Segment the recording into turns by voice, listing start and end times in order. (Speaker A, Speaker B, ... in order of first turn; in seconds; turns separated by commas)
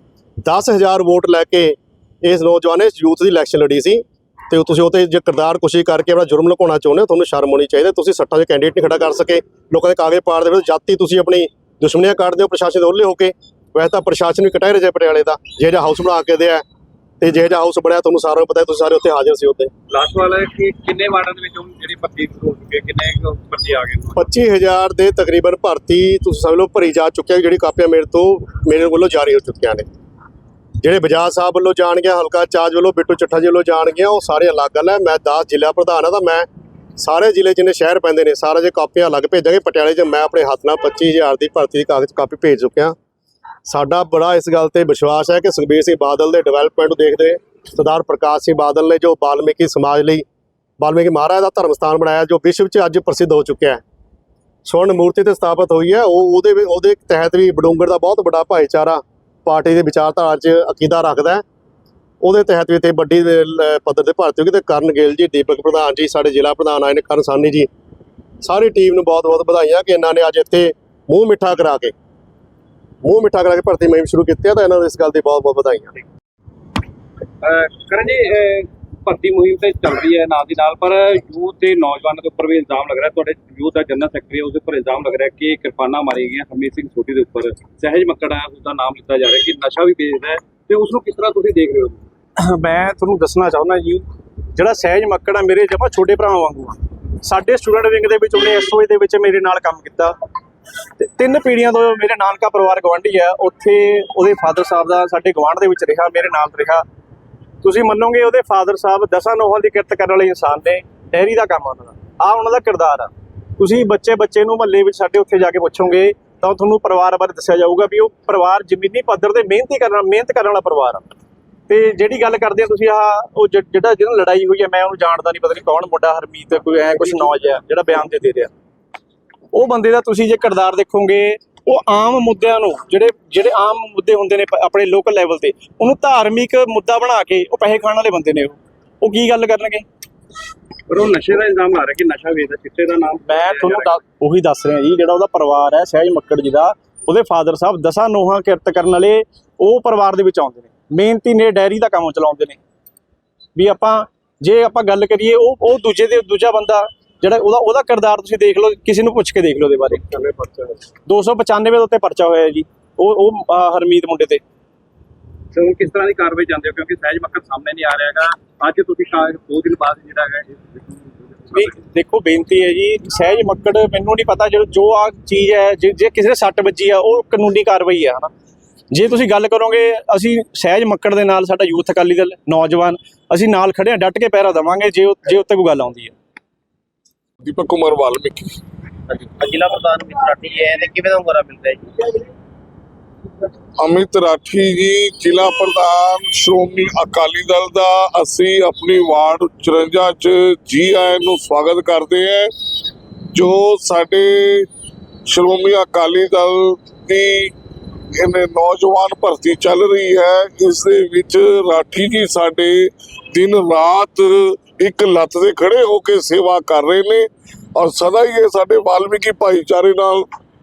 Speaker A: 0.4-16.6, Speaker A: 17.2-19.7, Speaker B: 19.9-24.3, Speaker A: 24.2-29.9, Speaker A: 30.8-36.5, Speaker A: 37.0-43.0, Speaker A: 43.7-50.2, Speaker A: 50.8-53.8, Speaker A: 54.6-61.4, Speaker A: 62.2-67.7, Speaker A: 68.4-71.9, Speaker A: 73.0-76.0, Speaker B: 77.4-92.0, Speaker C: 92.4-100.1, Speaker C: 101.0-106.8, Speaker C: 107.6-121.0, Speaker C: 121.7-128.5, Speaker C: 129.5-139.8, Speaker B: 140.9-143.9, Speaker C: 143.3-152.6, Speaker C: 153.6-160.1, Speaker C: 161.1-164.4, Speaker B: 165.5-171.7, Speaker C: 171.5-178.3, Speaker C: 178.9-186.1, Speaker D: 187.4-188.4, Speaker E: 189.1-192.2, Speaker D: 193.8-202.5, Speaker D: 203.3-204.7, Speaker D: 205.3-207.5, Speaker D: 208.2-217.2, Speaker D: 217.8-220.3